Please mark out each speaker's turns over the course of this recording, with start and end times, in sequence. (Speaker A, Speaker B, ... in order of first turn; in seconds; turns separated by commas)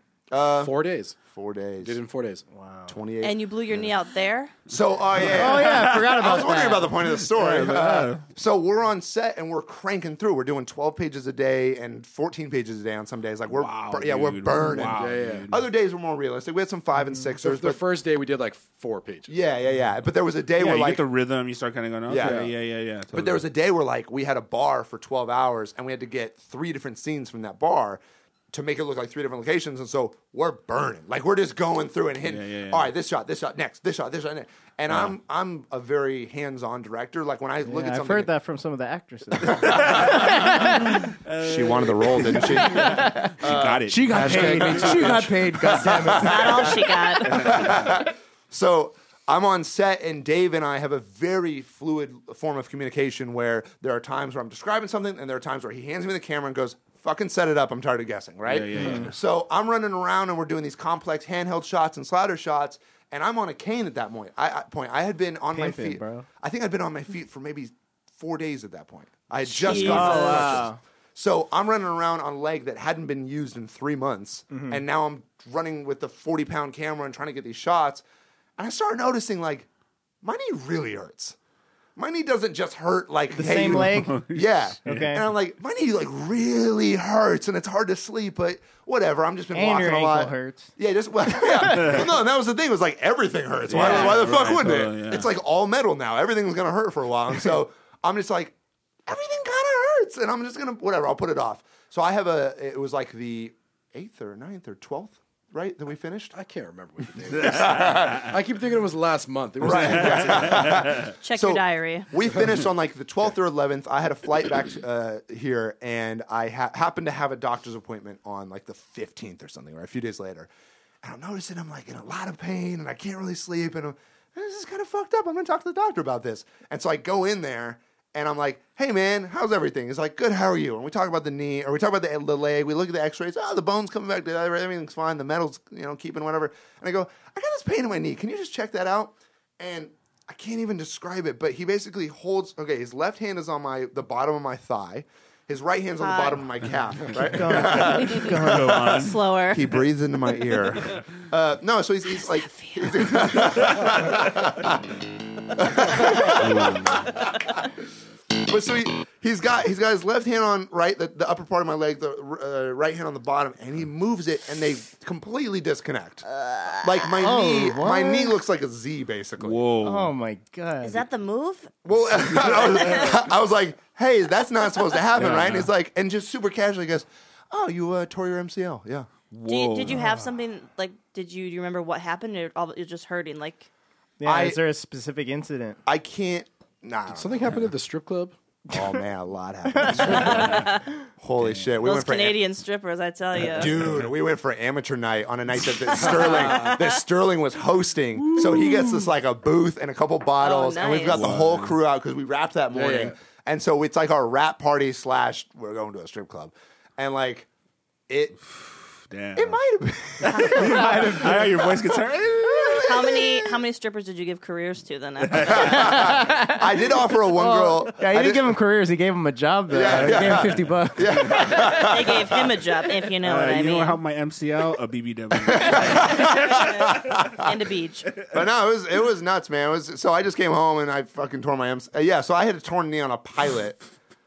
Speaker A: 0.3-0.7, Speaker B: 0.6-1.2, Speaker A: 1.2-2.0, Speaker B: 1.8-2.4, Speaker C: 2.5-3.0, Speaker A: 2.9-3.9, Speaker D: 3.2-4.5, Speaker A: 4.7-17.8, Speaker E: 5.2-6.3, Speaker C: 5.2-7.8, Speaker E: 7.1-8.2, Speaker E: 13.5-15.6, Speaker B: 14.9-15.5, Speaker B: 17.4-19.3, Speaker A: 19.3-21.0, Speaker E: 20.6-23.4, Speaker A: 22.1-22.5, Speaker B: 22.2-22.5, Speaker A: 23.1-28.0, Speaker A: 28.5-38.3, Speaker E: 32.2-32.9, Speaker E: 34.9-35.1, Speaker C: 37.6-41.0, Speaker A: 39.4-40.6, Speaker E: 39.6-45.3, Speaker A: 41.4-78.0, Speaker C: 42.4-46.9, Speaker B: 44.1-45.2, Speaker D: 46.2-47.5, Speaker E: 47.2-48.0, Speaker E: 58.5-59.2, Speaker C: 58.8-59.1, Speaker C: 65.5-66.2, Speaker D: 69.6-70.5, Speaker C: 69.7-70.8, Speaker C: 74.5-74.8, Speaker A: 78.6-79.7, Speaker A: 80.2-81.3, Speaker A: 82.0-98.5, Speaker C: 83.3-84.2, Speaker E: 83.5-85.1, Speaker C: 84.8-85.2, Speaker C: 89.5-90.7, Speaker E: 91.6-92.0, Speaker E: 93.7-95.3, Speaker C: 93.7-94.1, Speaker A: 99.0-106.3, Speaker B: 106.3-110.8, Speaker A: 107.3-108.3, Speaker A: 109.6-120.5, Speaker E: 109.7-111.1, Speaker D: 111.2-112.1, Speaker A: 121.0-155.0, Speaker D: 146.0-146.4, Speaker C: 147.3-148.9, Speaker E: 148.2-149.2, Speaker D: 148.9-149.8, Speaker D: 152.2-153.5, Speaker A: 155.5-157.7, Speaker E: 156.2-157.2, Speaker A: 158.3-166.2, Speaker D: 166.3-167.0, Speaker A: 166.8-169.6, Speaker C: 167.2-168.3, Speaker E: 169.4-170.1, Speaker C: 169.8-171.0, Speaker D: 170.8-173.2, Speaker A: 171.8-179.1, Speaker E: 172.6-173.1, Speaker E: 175.2-175.7, Speaker E: 179.3-180.2, Speaker D: 179.5-183.7, Speaker C: 184.2-185.8, Speaker A: 184.2-184.6, Speaker A: 185.8-187.6, Speaker B: 187.1-188.3, Speaker A: 188.7-192.4, Speaker C: 189.7-190.2, Speaker D: 190.0-190.8, Speaker E: 190.2-190.6, Speaker E: 191.4-191.8, Speaker D: 191.8-193.8, Speaker A: 193.4-207.5, Speaker D: 196.0-196.9, Speaker B: 196.0-196.8, Speaker D: 200.4-201.2, Speaker E: 201.1-201.8, Speaker B: 202.7-203.1, Speaker A: 208.1-208.3, Speaker E: 208.5-209.6, Speaker A: 209.3-213.4, Speaker E: 210.2-212.9, Speaker C: 210.5-211.4, Speaker D: 212.8-215.9, Speaker E: 215.2-216.0, Speaker A: 215.4-218.5, Speaker C: 215.7-216.6, Speaker C: 217.2-221.8, Speaker A: 219.7-222.5, Speaker E: 219.9-220.8, Speaker D: 221.8-224.0, Speaker E: 223.2-226.9, Speaker A: 225.4-227.5, Speaker D: 226.1-228.1, Speaker A: 228.2-233.8